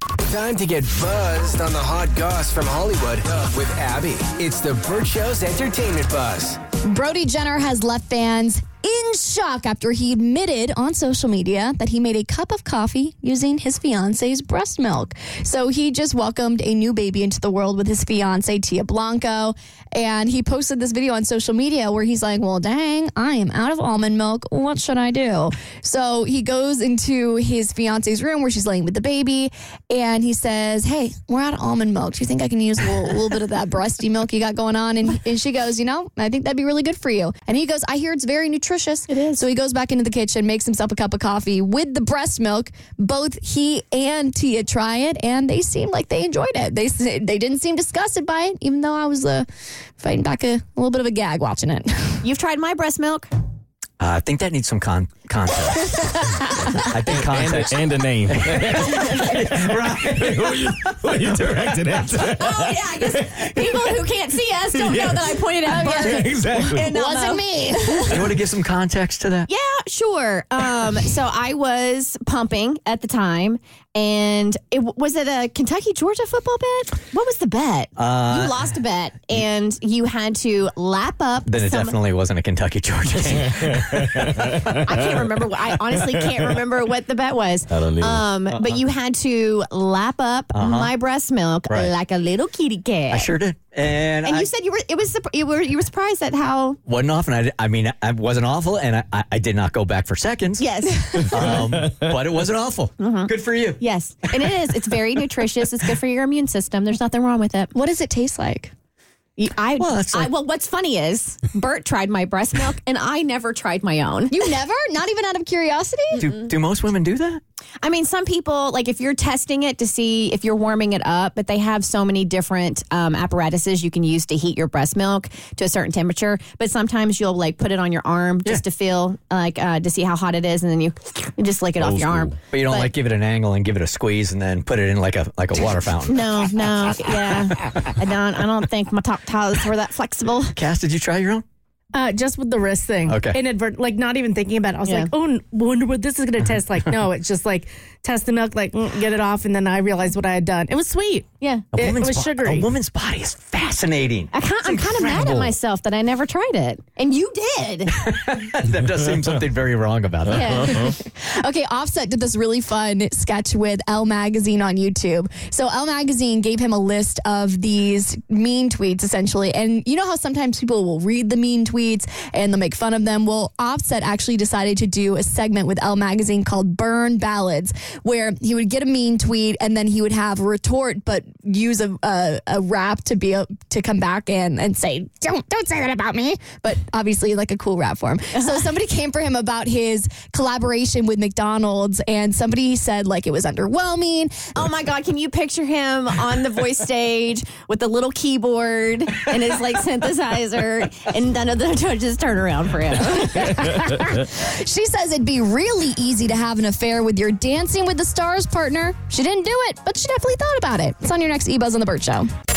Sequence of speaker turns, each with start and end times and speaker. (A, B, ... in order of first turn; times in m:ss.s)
0:00.2-0:06.6 A
0:06.8-0:49.4 B
0:39.1-0:39.4 C
0:50.0-0:52.2 B
0:52.2-0:53.3 C
0:54.0-0:56.2 D
0:56.7-1:00.9 D
0:57.1-1:02.8 E
1:02.2-1:07.4 C
1:04.8-1:05.2 E
1:05.7-1:06.2 B
1:05.8-1:06.9 E
1:06.8-1:08.4 B
1:08.1-1:09.5 D
1:09.5-1:22.0 C
1:18.0-1:18.6 D
1:21.5-1:24.6 D
1:24.8-1:33.3 C
1:27.8-1:28.2 E
1:28.5-1:28.8 D
1:30.5-1:31.0 D
1:31.7-1:31.9 D
1:33.1-1:34.5 D
1:34.2-1:36.8 C
1:36.8-1:44.5 D
1:40.6-1:41.6 C
1:43.0-1:47.7 C
1:47.7-1:48.7 B
1:49.4-1:54.4 C
1:49.8-1:50.3 D
1:54.3-1:56.3 B
1:56.2-1:57.4 D
1:57.8-2:12.9 C
2:11.9-2:17.3 D
2:16.0-2:20.6 C
2:20.5-2:21.4 D
2:21.9-2:32.7 F
2:23.1-2:23.4 D
2:24.8-2:25.1 C
2:31.4-2:31.6 C
2:31.7-2:35.5 D
2:34.3-2:38.0 C
2:38.0-2:40.9 D
2:40.3-2:40.9 C
2:40.5-3:14.5 B
3:14.5-3:23.5 C
3:23.3-3:32.3 B